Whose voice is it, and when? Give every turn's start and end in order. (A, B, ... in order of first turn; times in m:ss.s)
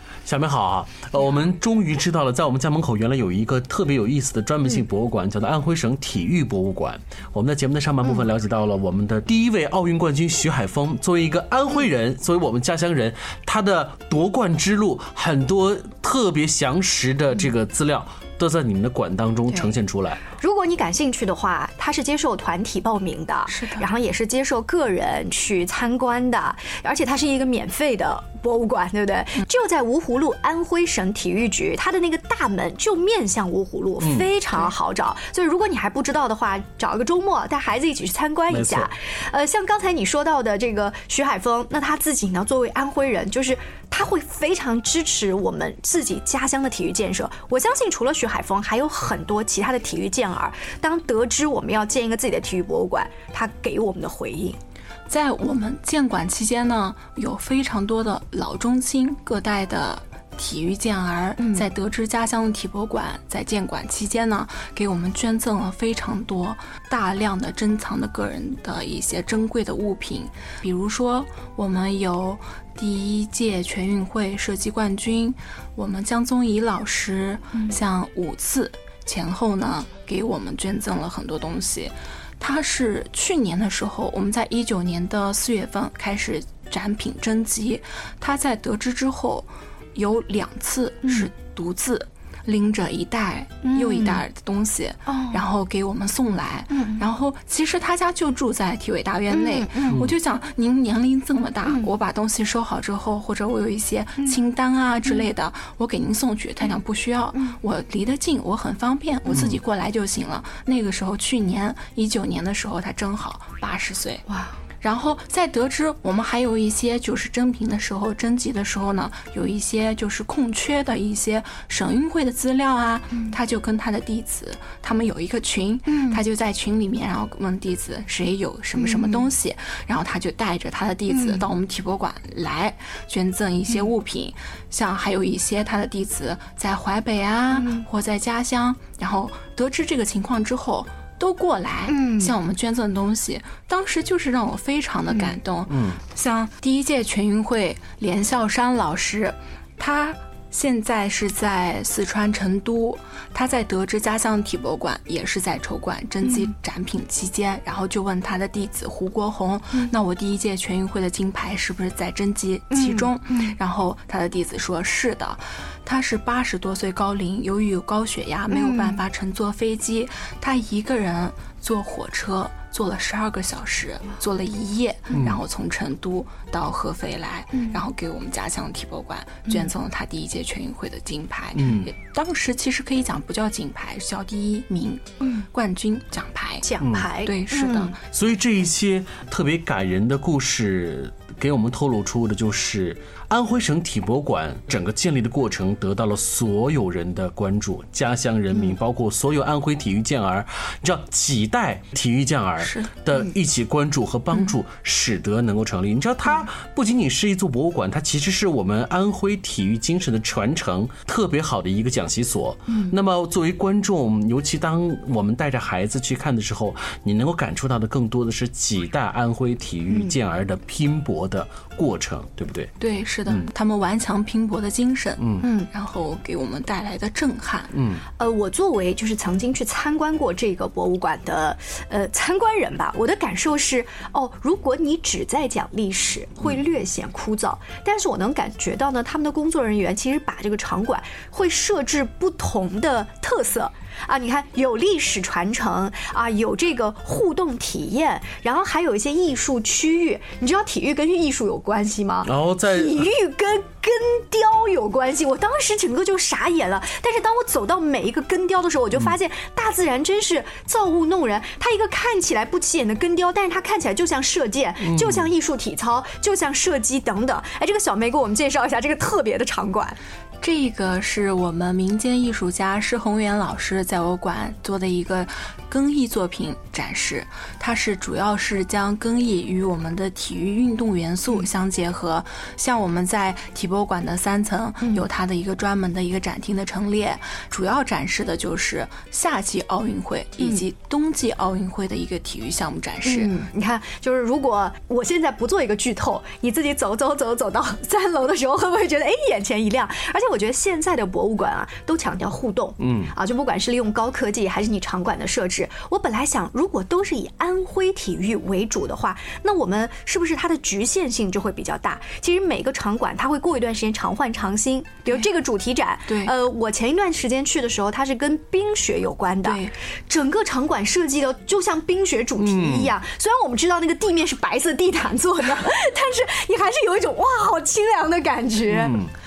0:00.2-0:20.2 A
0:20.4-0:54.6 B
0:23.5-0:23.8 C
0:34.0-0:34.3 A
0:38.5-0:38.9 A
0:55.1-1:54.2 C
1:01.4-1:01.6 B
1:33.6-1:34.2 B
1:35.0-1:35.4 B
1:36.7-1:37.0 B
1:39.3-1:40.0 B
1:41.6-1:41.9 B
1:54.3-1:54.5 B
1:54.8-3:06.7 C
2:05.9-2:06.2 B
2:08.8-2:09.3 B
2:11.1-2:11.4 B
2:17.5-2:17.8 B
2:21.9-2:22.3 B
2:25.1-2:25.4 B
2:25.7-2:26.0 A
2:36.2-2:36.5 B
2:42.7-2:43.6 B
2:48.5-2:49.0 B
2:55.1-2:55.4 A
2:57.5-2:57.8 B
3:01.5-3:01.9 A
3:06.6-3:07.9 B
3:06.8-3:07.1 A
3:07.2-3:08.0 C
3:08.1-3:42.7 A
3:22.6-3:22.9 C
3:39.9-3:40.1 B
3:42.8-3:47.7 C
3:45.2-3:45.4 A
3:45.4-3:45.7 B
3:47.7-3:48.0 A
3:48.2-4:30.0 B
4:12.2-4:13.1 A
4:24.8-4:25.3 A
4:30.4-4:53.3 C
4:44.8-4:45.1 B
4:53.0-5:29.0 B
5:02.8-5:03.1 A
5:19.4-5:19.7 C
5:22.4-5:22.9 A
5:28.7-5:29.1 A